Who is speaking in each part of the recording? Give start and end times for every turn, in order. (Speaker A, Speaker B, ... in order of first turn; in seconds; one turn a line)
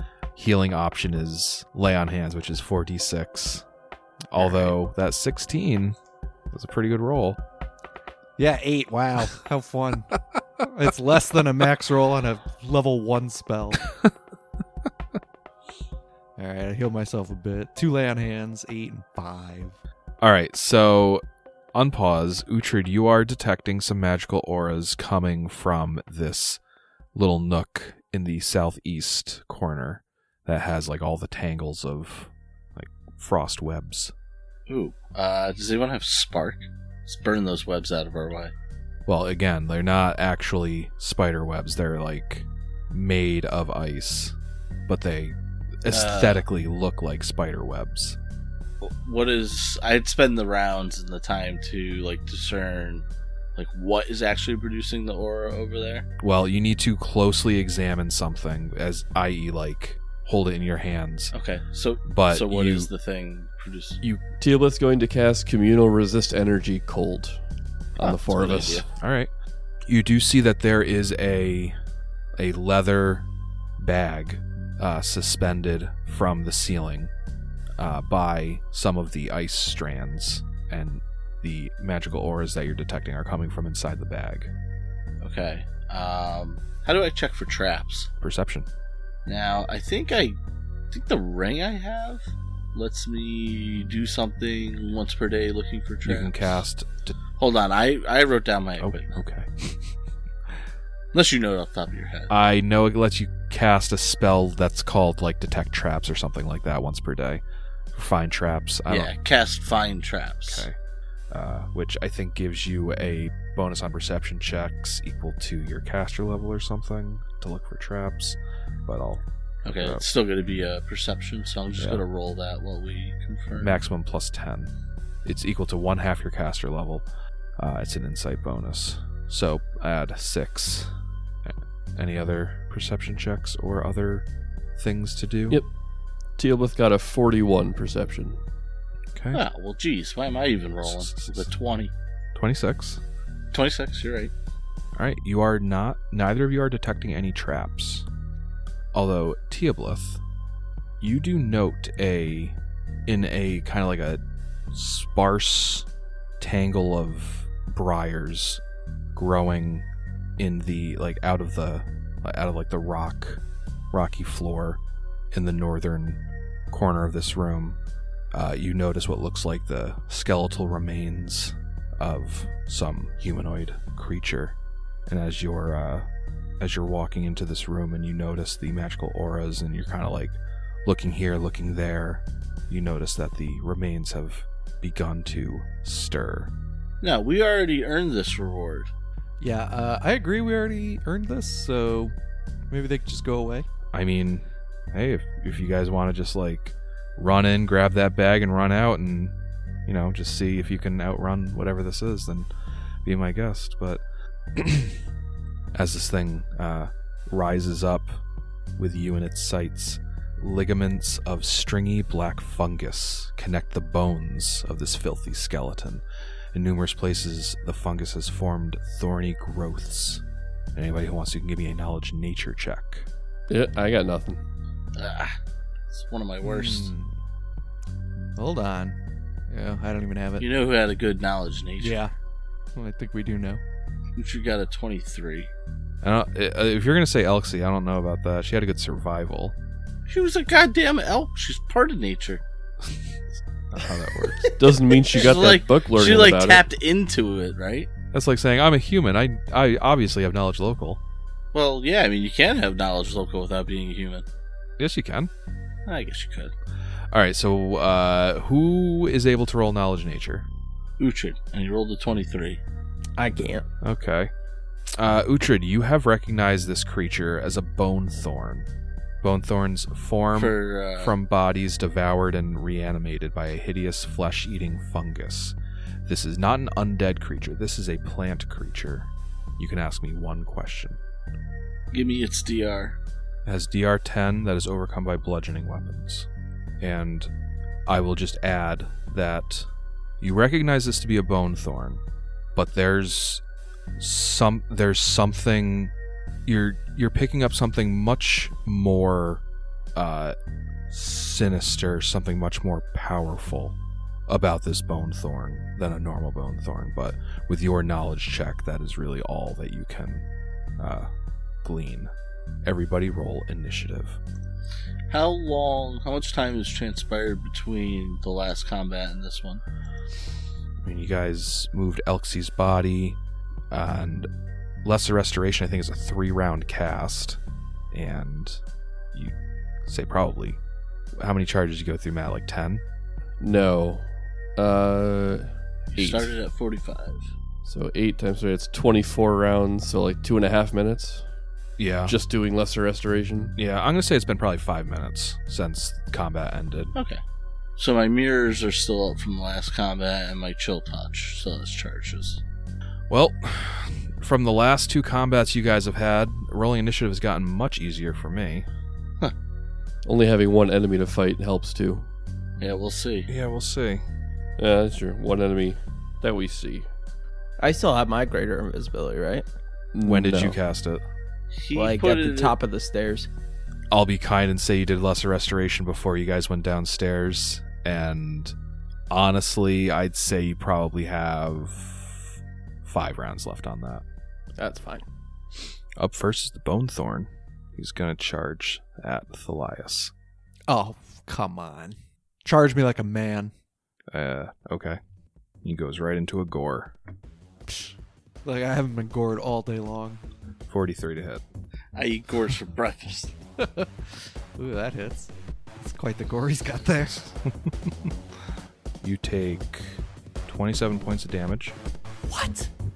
Speaker A: 0.3-3.6
Speaker A: 4.3-6.0
Speaker A: 6.5-7.4
Speaker B: 8.4-13.8
Speaker B: 16.4-19.8
Speaker A: 20.2-21.2
Speaker A: 21.7-26.6
Speaker A: 27.1-34.1
Speaker C: 34.7-38.5
Speaker A: 39.0-44.4
Speaker A: 44.9-48.2
Speaker C: 45.9-46.4
Speaker C: 48.8-56.1
Speaker A: 56.2-61.3
Speaker C: 61.3-64.0
Speaker A: 62.0-62.9
Speaker D: 64.4-67.4
Speaker D: 68.0-68.8
Speaker C: 68.0-68.8
Speaker A: 69.0-69.3
Speaker A: 69.8-71.8
Speaker A: 72.3-77.1
Speaker A: 77.8-84.5
Speaker C: 85.2-88.1
Speaker A: 88.2-88.7
Speaker C: 89.2-90.4
Speaker C: 90.9-96.4
Speaker A: 96.0-97.2
Speaker C: 97.4-99.2
Speaker A: 98.8-99.9
Speaker C: 101.1-102.3
Speaker A: 102.3-109.1
Speaker C: 108.9-110.7
Speaker A: 110.5-110.7
Speaker A: 111.3-120.0
Speaker C: 119.6-123.8
Speaker A: 123.5-124.7
Speaker A: 125.2-127.0
Speaker A: 127.6-130.9
Speaker A: 131.4-135.6
Speaker D: 136.4-138.4
Speaker A: 139.1-139.4
Speaker C: 139.3-141.9
Speaker A: 140.8-141.5
Speaker A: 142.3-143.0
Speaker C: 143.5-144.3
Speaker A: 144.9-148.1
Speaker A: 148.9-150.2
Speaker A: 151.0-155.9
Speaker A: 156.4-158.6
Speaker A: 159.1-159.9
Speaker A: 160.4-164.8
Speaker A: 165.3-167.8
Speaker A: 168.3-176.1
Speaker A: 176.6-186.5
Speaker C: 187.0-188.9
Speaker B: 189.4-192.1
Speaker B: 192.7-193.7
Speaker A: 193.9-199.3
Speaker A: 199.8-202.5
Speaker A: 203.0-204.0
Speaker A: 204.6-205.0
Speaker A: 205.7-208.2
Speaker A: 208.8-220.2
Speaker A: 220.7-223.1
Speaker D: 223.5-224.4
Speaker C: 224.9-225.3
Speaker C: 225.9-226.9
Speaker B: 226.4-227.1
Speaker B: 228.4-229.0
Speaker B: 229.5-230.5
Speaker C: 230.4-232.0
Speaker B: 231.8-232.1
Speaker B: 232.7-233.6
Speaker C: 234.2-235.5
Speaker A: 236.0-239.6
Speaker C: 240.1-242.4
Speaker A: 243.7-244.5
Speaker D: 244.6-246.6
Speaker C: 245.1-247.9
Speaker A: 248.1-251.0
Speaker C: 251.5-254.2
Speaker A: 254.8-255.3
Speaker C: 255.8-256.5
Speaker A: 257.1-260.5
Speaker C: 261.0-262.6
Speaker E: 263.2-263.6
Speaker A: 263.8-264.3
Speaker A: 264.9-268.7
Speaker A: 269.2-281.0
Speaker C: 270.3-271.1
Speaker C: 281.9-283.0
Speaker A: 283.4-286.3
Speaker A: 286.8-287.3
Speaker A: 287.9-289.7
Speaker A: 290.2-292.0
Speaker A: 292.5-293.4
Speaker A: 294.0-295.9
Speaker A: 296.4-299.4
Speaker A: 299.9-300.4
Speaker A: 300.9-310.3
Speaker A: 310.8-311.1
Speaker A: 311.6-312.1
Speaker A: 312.6-314.2
Speaker C: 315.1-319.6
Speaker A: 320.8-323.2
Speaker A: 323.7-324.3
Speaker A: 324.8-327.4
Speaker A: 327.9-328.6
Speaker A: 329.9-330.6
Speaker A: 331.2-332.8
Speaker D: 333.4-336.3
Speaker C: 335.9-337.3
Speaker D: 337.6-341.3
Speaker A: 341.8-342.1
Speaker D: 342.1-343.5
Speaker A: 343.6-346.9
Speaker C: 346.9-347.2
Speaker C: 347.8-352.4
Speaker A: 353.1-358.7
Speaker D: 360.0-362.1
Speaker C: 362.6-363.3
Speaker A: 363.3-364.0
Speaker D: 364.6-366.9
Speaker E: 367.6-369.4
Speaker D: 369.9-370.6
Speaker A: 370.0-371.0
Speaker C: 371.6-372.5
Speaker E: 371.7-373.3
Speaker A: 373.9-378.5
Speaker A: 379.1-382.3
Speaker A: 382.8-384.0
Speaker E: 384.6-385.0
Speaker A: 386.0-390.1
Speaker B: 390.7-393.5
Speaker A: 394.1-395.0
Speaker A: 395.6-396.9
Speaker B: 397.7-400.2
Speaker A: 400.7-401.4
Speaker C: 401.9-403.3
Speaker B: 403.6-403.9
Speaker B: 404.6-407.3
Speaker A: 407.6-408.1
Speaker A: 409.0-411.8
Speaker B: 412.2-412.7